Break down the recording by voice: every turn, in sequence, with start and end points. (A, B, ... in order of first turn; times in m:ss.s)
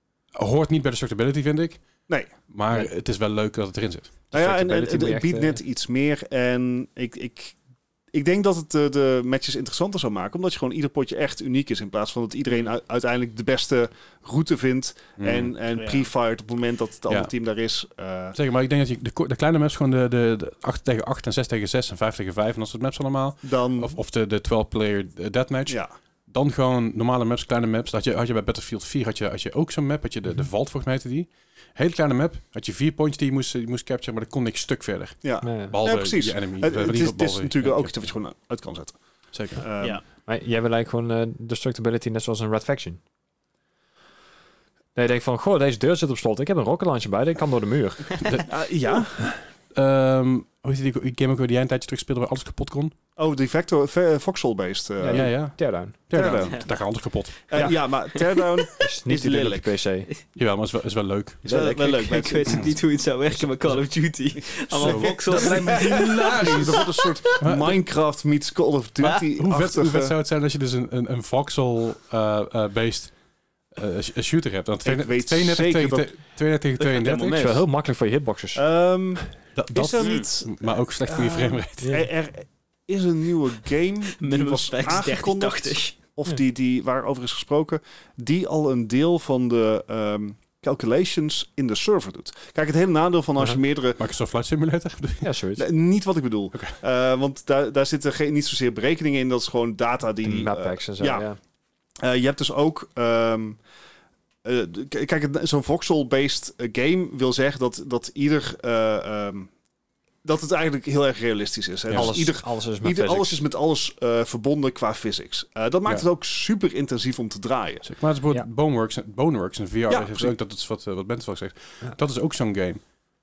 0:00.4-0:01.8 A
0:02.5-0:04.1 A
0:04.3-0:05.6 B
0:04.3-0:07.6 C
0:08.1-0:18.4 C
0:15.2-0:15.5 A
0:15.7-0:16.1 D
0:18.3-0:38.1 A
0:23.4-0:24.0 C
0:35.2-0:39.0 C
0:35.4-0:35.8 B
0:39.3-0:39.6 A
0:39.5-0:40.0 C
0:40.2-0:43.0 B
0:44.9-0:48.3 B
0:48.2-0:48.6 A
0:48.5-0:49.2 C
0:49.7-0:52.9 A
0:53.2-0:55.3 C
0:55.0-0:56.2 B
0:55.1-0:57.8 A
0:56.1-0:56.7 C
0:57.5-0:59.8 C
0:58.8-1:00.1 B
1:00.3-1:01.4 A
1:01.4-1:01.9 B
1:01.4-1:02.7 C
1:01.5-1:07.1 D
1:04.7-1:10.1 C
1:04.7-1:07.8 A
1:09.3-1:13.1 A
1:13.7-1:17.5 A
1:14.8-1:16.1 C
1:16.8-1:17.6 D
1:17.2-1:18.6 B
1:18.5-1:34.0 C
1:19.6-1:21.9 A
1:20.0-1:20.2 D
1:21.8-1:22.1 B
1:24.2-1:26.0 D
1:34.0-1:35.3 A
1:35.2-1:35.6 B
1:35.6-1:41.2 C
1:40.2-1:41.4 B
1:42.0-1:43.6 C
1:44.4-1:49.5 C
1:50.2-1:57.9 C
1:51.9-1:52.1 A
1:51.9-1:53.4 B
1:57.8-2:02.8 A
1:59.9-2:00.3 C